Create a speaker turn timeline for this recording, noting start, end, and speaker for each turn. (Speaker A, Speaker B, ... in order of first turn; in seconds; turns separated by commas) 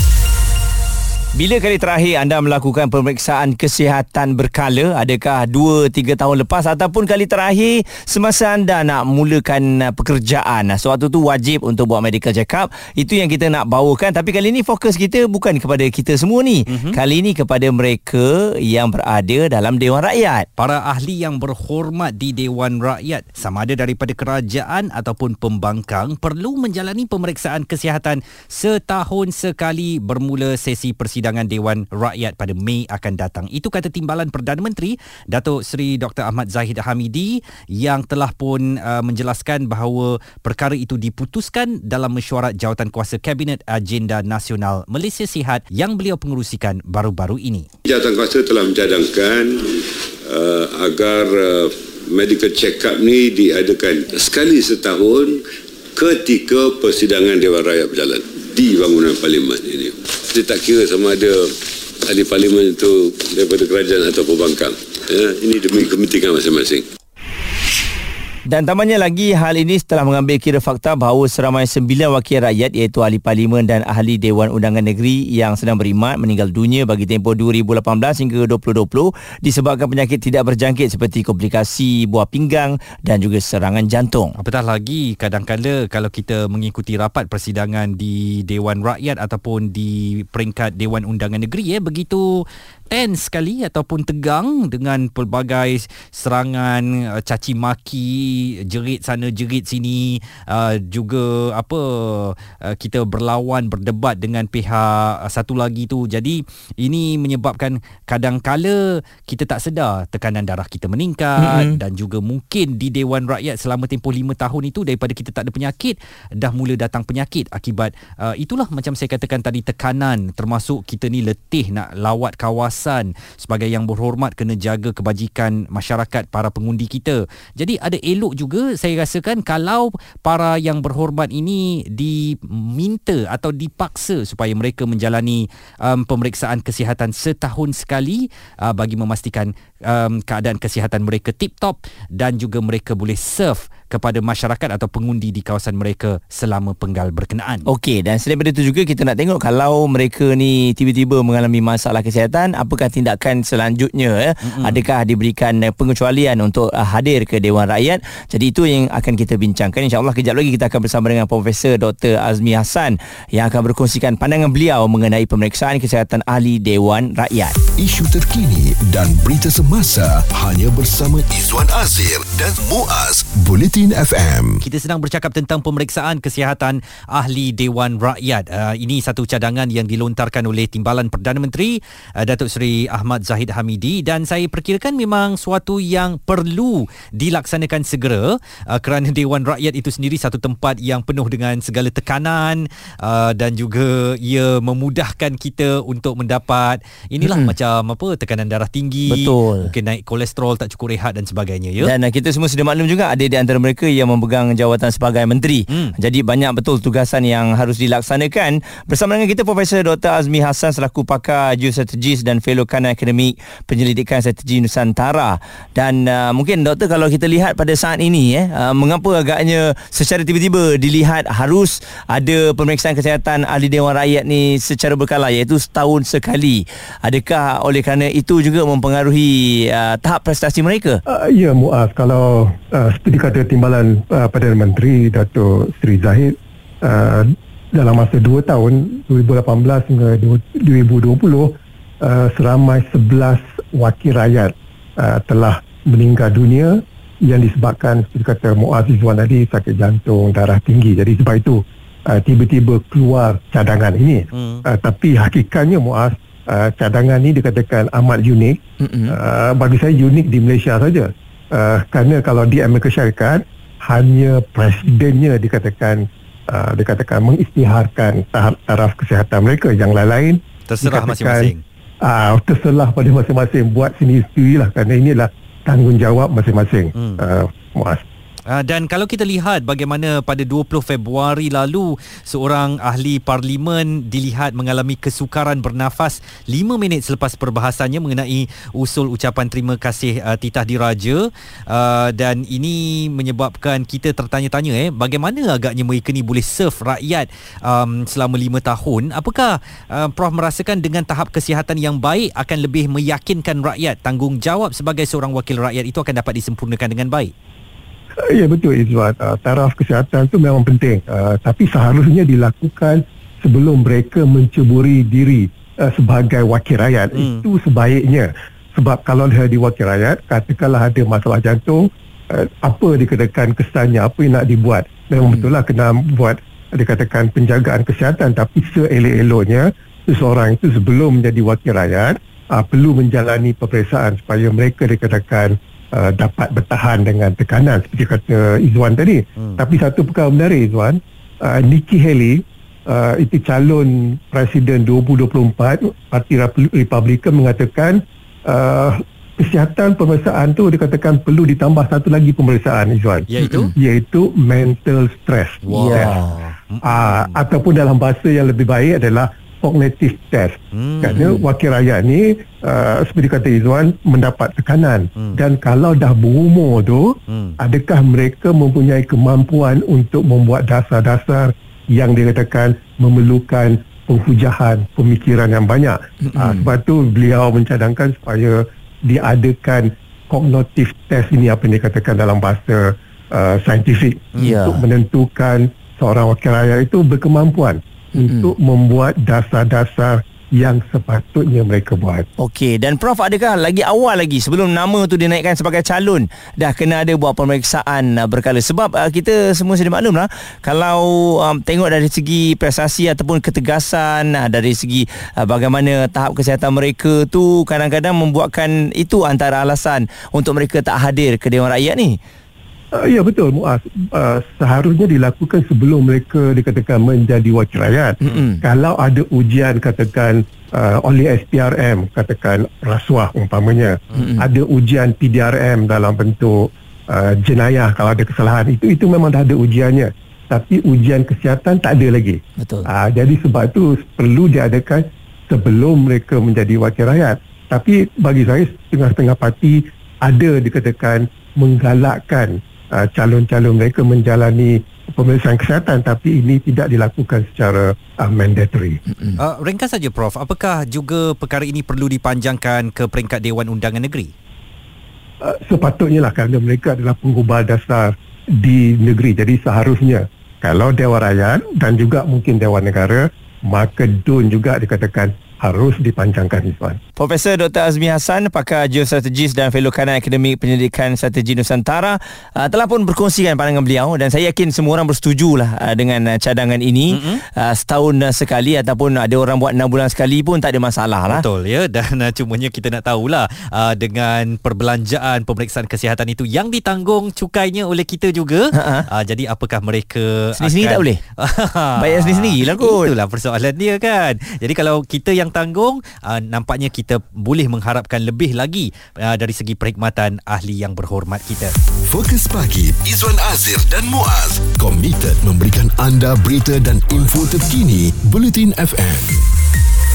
Speaker A: 1.3-20.4, Speaker B: 16.7-17.0, Speaker B: 20.6-47.7, Speaker C: 47.8-55.4, Speaker C: 56.0-61.5, Speaker C: 62.0-66.9, Speaker A: 68.5-84.3, Speaker B: 84.4-147.7, Speaker A: 111.4-111.8, Speaker A: 147.7-167.6, Speaker B: 154.4-154.8, Speaker D: 167.8-174.6, Speaker B: 174.6-201.9, Speaker A: 197.2-197.5, Speaker A: 199.1-199.7, Speaker A: 201.8-231.0, Speaker B: 205.7-205.9, Speaker E: 231.1-278.0, Speaker B: 254.3-254.6, Speaker A: 258.8-259.2, Speaker B: 270.7-271.6, Speaker B: 276.9-277.2, Speaker B: 278.5-307.3, Speaker E: 308.3-356.2, Speaker B: 317.1-317.4, Speaker B: 339.4-339.6, Speaker B: 353.3-353.7, Speaker A: 353.4-353.7, Speaker B: 355.6-357.4, Speaker A: 355.7-356.4, Speaker E: 356.8-392.3, Speaker B: 360.7-361.2, Speaker A: 361.1-361.4, Speaker B: 367.3-367.6, Speaker A: 376.2-376.7, Speaker A: 384.4-384.8, Speaker A: 388.1-388.5, Speaker A: 392.4-412.2, Speaker E: 412.9-449.0, Speaker A: 418.2-418.6, Speaker A: 424.1-424.4, Speaker A: 432.6-432.9, Speaker B: 449.4-454.3, Speaker E: 455.4-467.0, Speaker A: 467.2-481.4, Speaker B: 477.1-477.4, Speaker B: 481.3-501.7, Speaker A: 488.7-489.1, Speaker A: 490.6-491.2, Speaker A: 492.0-493.1, Speaker D: 502.1-509.5